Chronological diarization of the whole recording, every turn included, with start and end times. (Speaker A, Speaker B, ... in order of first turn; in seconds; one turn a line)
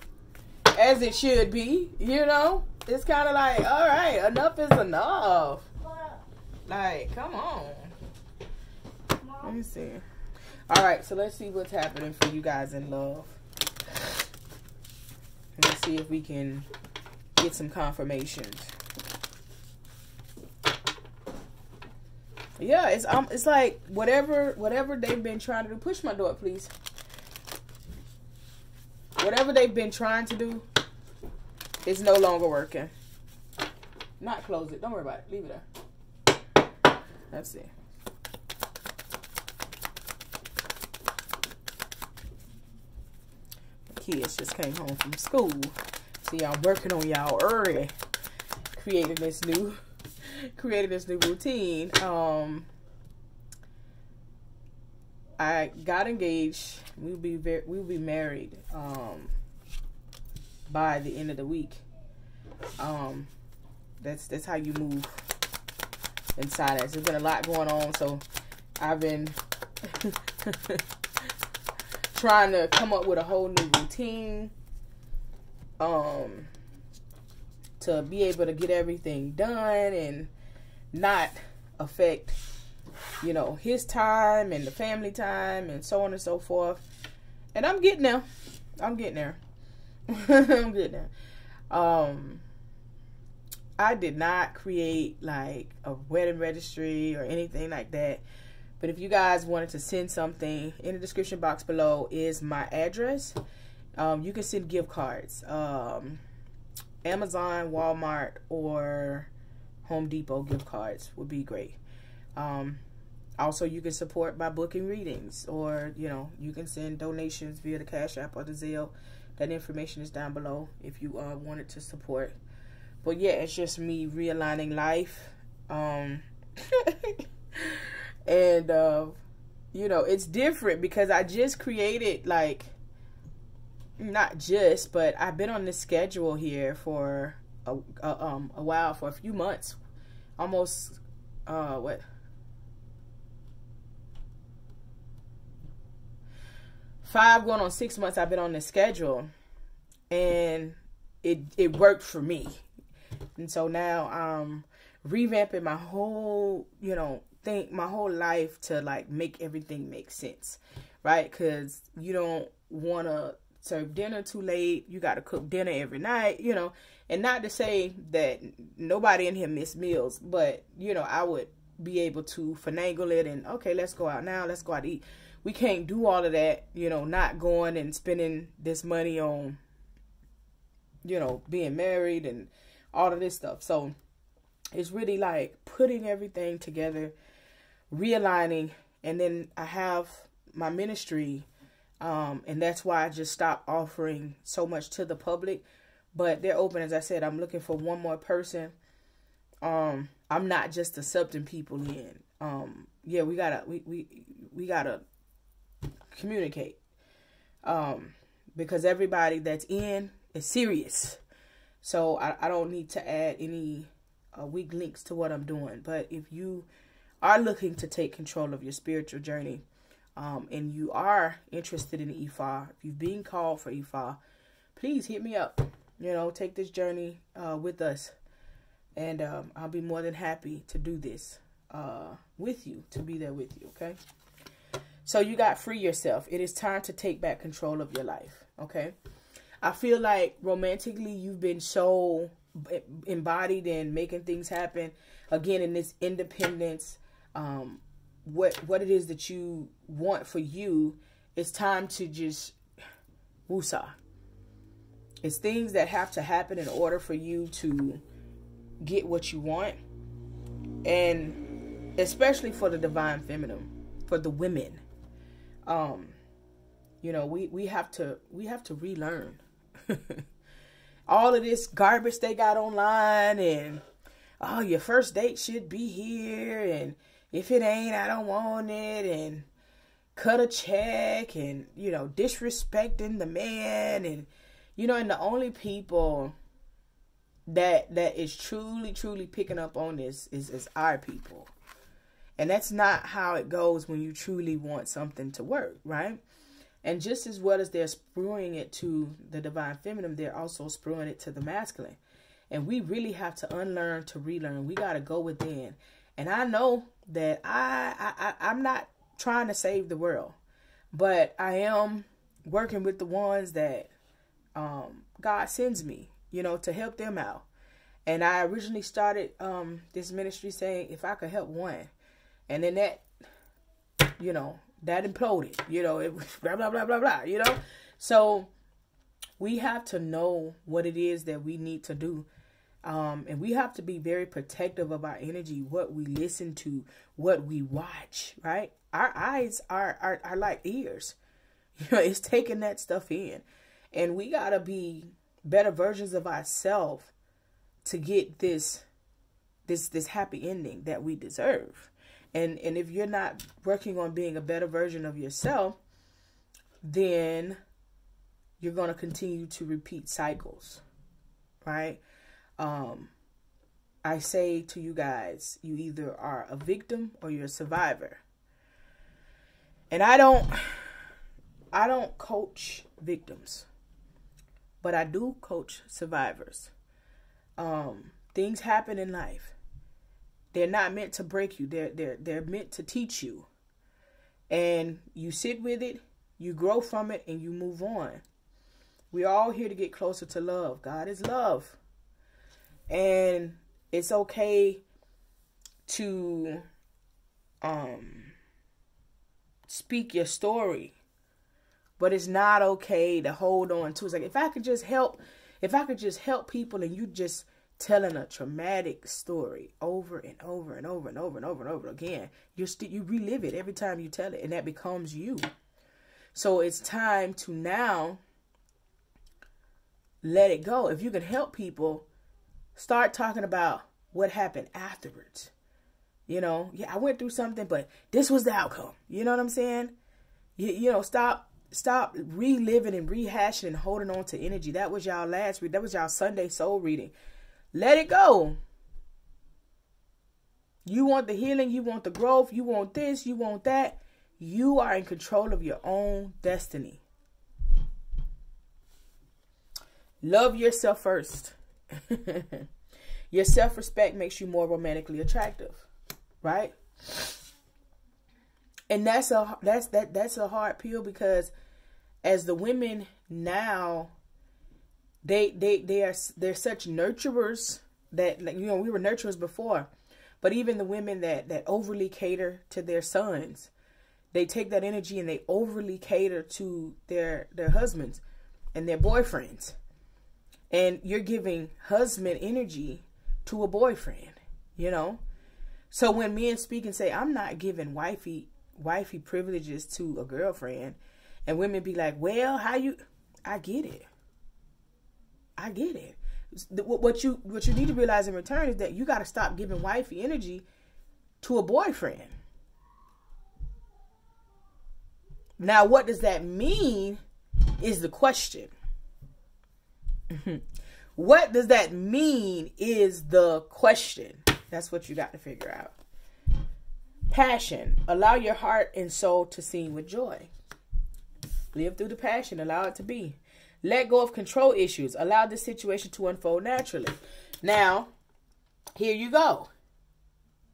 Speaker A: 0.7-5.7
Speaker A: 6.7-7.9
Speaker A: 9.3-10.0
Speaker A: 10.7-13.4
Speaker A: 15.6-16.7
Speaker A: 17.4-18.7
Speaker A: 22.6-26.7
Speaker A: 29.2-30.7
Speaker A: 31.8-32.9
Speaker A: 34.2-35.6
Speaker A: 37.3-37.7
Speaker A: 43.9-47.9
Speaker A: 48.7-49.8
Speaker A: 50.3-52.7
Speaker A: 55.4-59.3
Speaker A: 60.7-61.8
Speaker A: 62.8-63.3
Speaker A: 64.0-65.2
Speaker A: 66.4-68.2
Speaker A: 68.8-70.8
Speaker A: 72.1-74.5
Speaker A: 75.8-76.5
Speaker A: 77.8-80.3
Speaker A: 80.9-82.4
Speaker A: 83.2-86.8
Speaker A: 87.5-88.2
Speaker A: 88.8-89.4
Speaker A: 90.1-91.1
Speaker A: 91.7-92.4
Speaker A: 93.8-98.2
Speaker A: 98.8-103.4
Speaker A: 104.0-106.2
Speaker A: 107.0-109.3
Speaker A: 109.8-111.8
Speaker A: 112.3-112.8
Speaker A: 113.4-122.3
Speaker A: 123.0-129.2
Speaker A: 129.7-132.7
Speaker A: 134.0-139.8
Speaker A: 140.4-142.0
Speaker A: 147.0-149.3
Speaker A: 150.1-152.6
Speaker A: 153.4-179.6
Speaker A: 181.0-183.9
Speaker A: 184.7-187.1
Speaker A: 187.9-191.5
Speaker A: 192.0-198.7
Speaker A: 199.6-205.0
Speaker A: 206.1-206.8
Speaker A: 207.6-211.2
Speaker A: 211.8-216.7
Speaker A: 217.2-219.6
Speaker A: 220.2-224.2
Speaker A: 224.8-228.1
Speaker A: 228.9-234.0
Speaker A: 235.0-238.9
Speaker A: 239.6-252.6
Speaker A: 253.5-253.9
Speaker A: 255.2-258.0
Speaker A: 258.8-259.8
Speaker A: 260.8-261.4
Speaker A: 262.0-264.8
Speaker A: 265.7-266.2
Speaker A: 267.0-270.2
Speaker A: 271.1-273.8
Speaker A: 274.4-279.5
Speaker A: 280.1-286.3
Speaker A: 287.5-291.5
Speaker A: 292.4-296.2
Speaker A: 296.8-302.0
Speaker A: 302.5-310.4
Speaker A: 310.9-313.9
Speaker A: 314.6-317.4
Speaker A: 318.1-321.9
Speaker A: 322.5-323.1
Speaker A: 324.2-328.5
Speaker A: 329.4-332.3
Speaker A: 332.8-341.1
Speaker A: 341.8-347.1
Speaker A: 347.8-348.8
Speaker A: 349.7-355.8
Speaker A: 356.8-357.6
Speaker A: 358.6-360.8
Speaker A: 361.6-362.0
Speaker A: 362.6-363.1
Speaker A: 364.0-368.2
Speaker A: 369.9-370.8
Speaker A: 371.7-373.7
Speaker A: 374.8-376.7
Speaker A: 377.6-379.5
Speaker A: 380.5-383.5
Speaker A: 384.5-388.2
Speaker A: 389.1-391.8
Speaker A: 392.9-394.8
Speaker A: 395.9-396.6
Speaker A: 397.6-398.3
Speaker A: 399.7-400.9
Speaker A: 402.0-415.5
Speaker A: 416.3-418.2
Speaker A: 420.2-422.0
Speaker A: 422.8-425.5
Speaker A: 426.3-429.9
Speaker A: 430.6-437.1
Speaker A: 437.7-438.6
Speaker A: 440.9-447.0
Speaker A: 450.2-452.6
Speaker A: 453.3-455.9
Speaker A: 456.4-457.4
Speaker A: 458.9-461.5
Speaker A: 462.2-464.1
Speaker A: 465.2-469.9
Speaker A: 470.4-473.7
Speaker A: 474.3-478.2
Speaker A: 478.7-479.8
Speaker A: 480.7-485.2
Speaker A: 485.9-494.1
Speaker A: 495.6-500.6
Speaker A: 501.4-502.3
Speaker A: 505.6-507.2
Speaker A: 507.8-508.7
Speaker A: 510.3-510.6
Speaker A: 511.1-515.9
Speaker A: 517.3-520.5
Speaker A: 521.7-528.1
Speaker A: 529.0-529.7